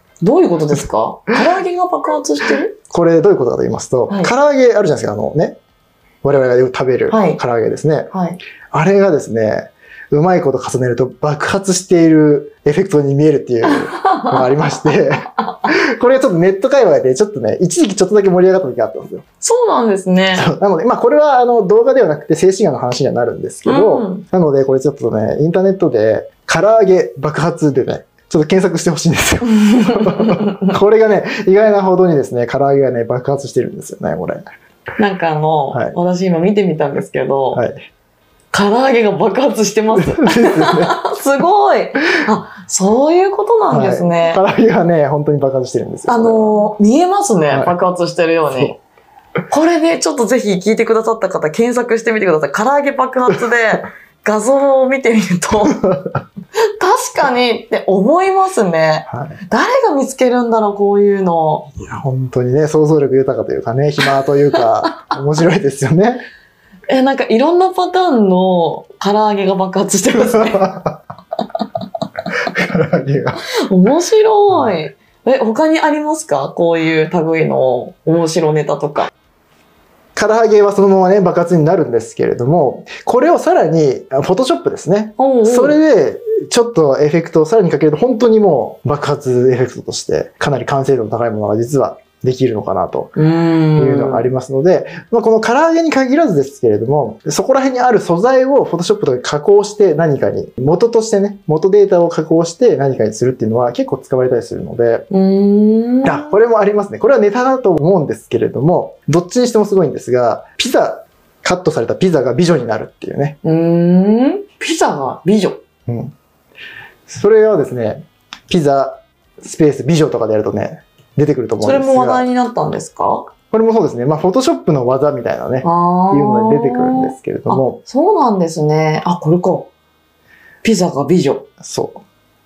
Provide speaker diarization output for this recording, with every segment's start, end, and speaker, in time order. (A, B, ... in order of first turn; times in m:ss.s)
0:00.2-0:02.7 A
0:02.8-0:05.6 B
0:04.1-0:04.3 A
0:06.2-0:08.1 B
0:07.1-0:07.4 A
0:08.1-0:08.4 A
0:08.7-0:19.2 B
0:13.7-0:14.8 A
0:19.4-0:20.5 A
0:20.3-0:34.5 B
0:23.6-0:24.2 A
0:29.5-0:30.7 A
0:35.0-0:37.6 A
0:37.5-0:37.8 B
0:38.5-0:44.4 A
0:40.0-0:41.0 B
0:43.7-0:46.7 B
0:46.1-0:48.8 A
0:47.5-0:47.8 B
0:48.5-0:48.7 B
0:49.5-0:55.8 A
0:55.7-0:56.2 B
0:56.8-1:01.7 A
0:59.1-0:59.4 B
1:01.8-1:06.2 B
1:06.9-1:10.7 A
1:10.2-1:11.0 B
1:12.5-1:13.4 B
1:13.6-1:19.1 A
1:14.5-1:14.8 B
1:20.2-1:33.1 B
1:25.2-1:25.8 A
1:33.2-1:34.3 A
1:33.8-1:45.1 B
1:45.1-1:46.3 A
1:46.0-1:53.4 B
1:53.4-1:55.6 A
1:55.9-1:56.1 B
1:57.1-2:02.2 B
2:01.6-2:03.3 A
2:03.5-2:07.8 B
2:05.6-2:09.7 A
2:10.6-2:11.5 A
2:11.6-2:12.0 B